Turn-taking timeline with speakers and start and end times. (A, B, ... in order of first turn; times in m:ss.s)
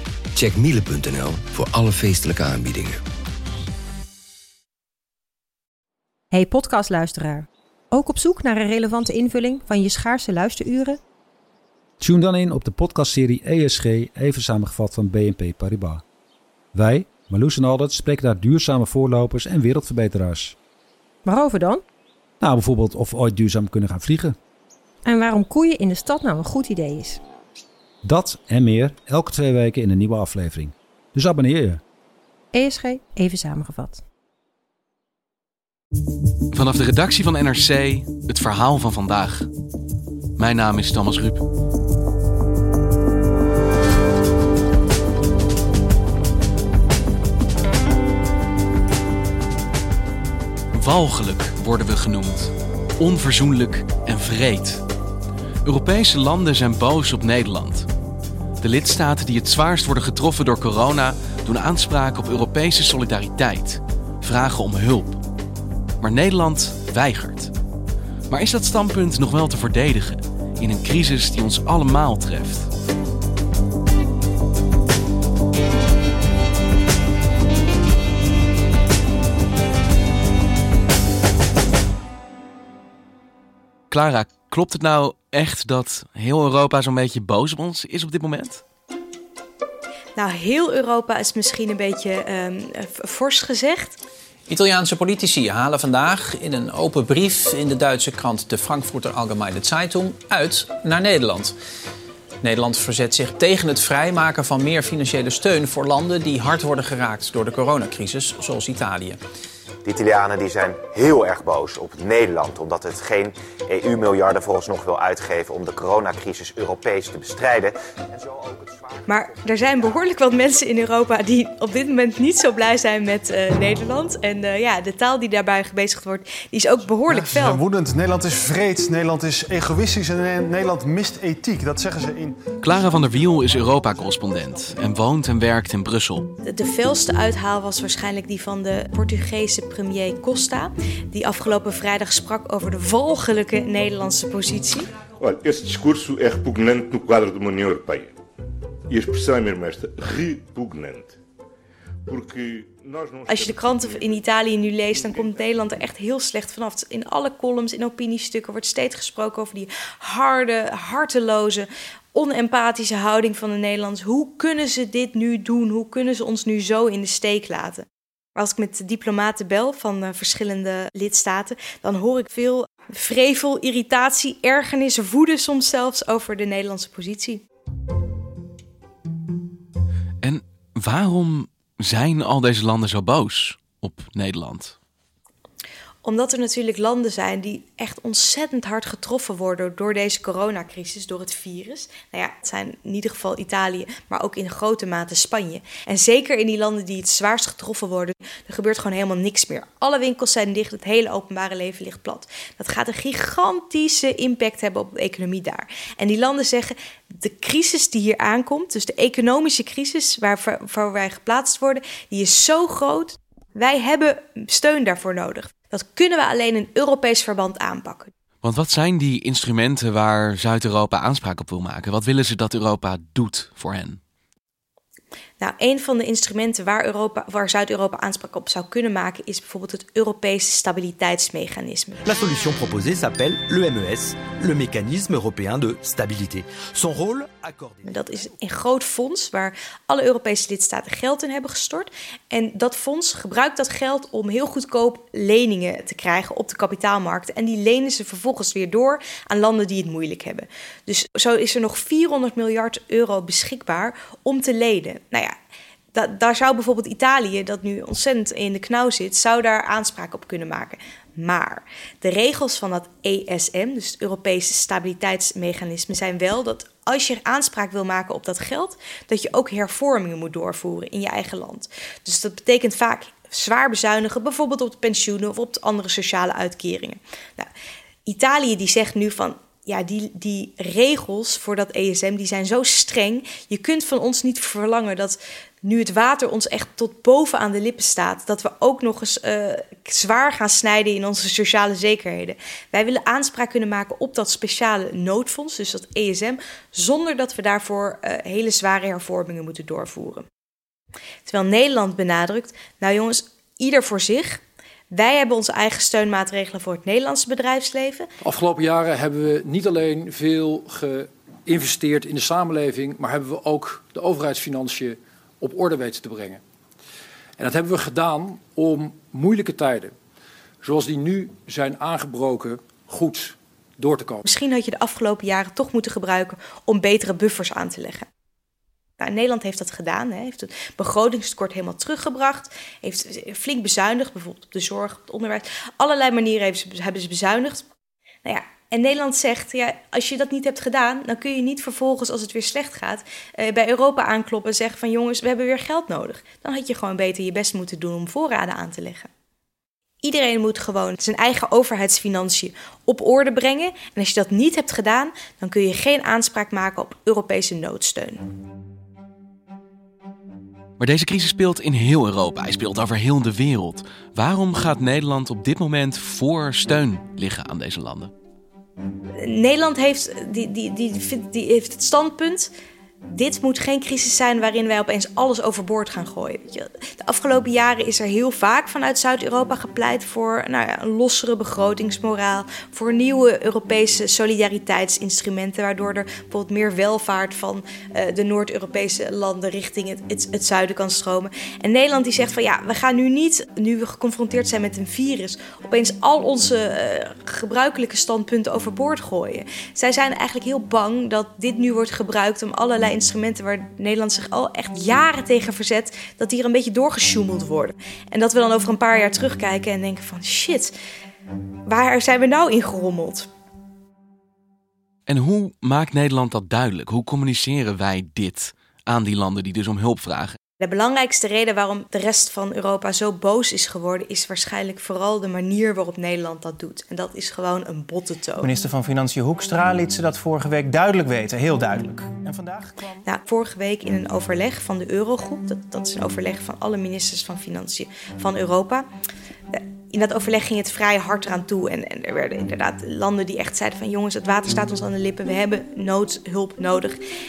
0:00.3-0:03.0 A
0:06.3-0:11.0 B
0:12.0-0:16.0 C
0:16.7-0:20.6 C
0:21.2-0:21.8 B
0:22.4-0:24.4 C
0:25.0-0:27.2 B
0:28.0-0:31.8 C
0:32.5-0:34.0 B
0:36.5-0:39.5 D
0:40.4-0:41.4 D
0:50.7-0:54.8 D
0:55.6-0:57.9 D
0:58.6-1:05.2 D
1:06.0-1:07.5 D
1:08.3-1:12.7 D
1:23.9-1:28.6 D
1:30.2-1:34.0 E
1:34.5-1:41.5 F
1:42.4-1:49.2 F
1:49.8-1:59.3 G
1:59.1-2:07.6 E
2:07.0-2:12.4 H
2:12.6-2:16.3 D
2:16.4-2:24.9 E
2:25.2-2:28.1 I
2:28.9-2:31.1 I
2:32.1-2:34.2 I
2:33.3-2:57.4 E
3:00.2-3:04.7 D
3:06.0-3:38.1 E
3:38.4-3:44.0 D
3:45.4-3:52.0 E
3:52.0-3:58.3 J
3:57.8-4:15.3 E
4:15.9-4:37.5 E
4:38.0-5:00.2 E
5:01.2-5:08.1 E
5:08.2-5:16.4 K
5:17.4-5:19.9 K
5:20.6-5:24.2 K
5:24.2-5:28.1 E
5:29.0-5:37.7 E
5:38.2-5:49.1 E
5:50.0-5:58.2 E
6:00.8-6:08.1 D
6:09.2-6:12.5 E
6:13.1-6:50.7 E
6:51.6-6:53.3 E
6:55.1-7:00.4 D
7:00.6-7:08.5 E
7:08.4-7:13.0 L
7:13.0-7:18.9 E
7:19.5-7:27.0 E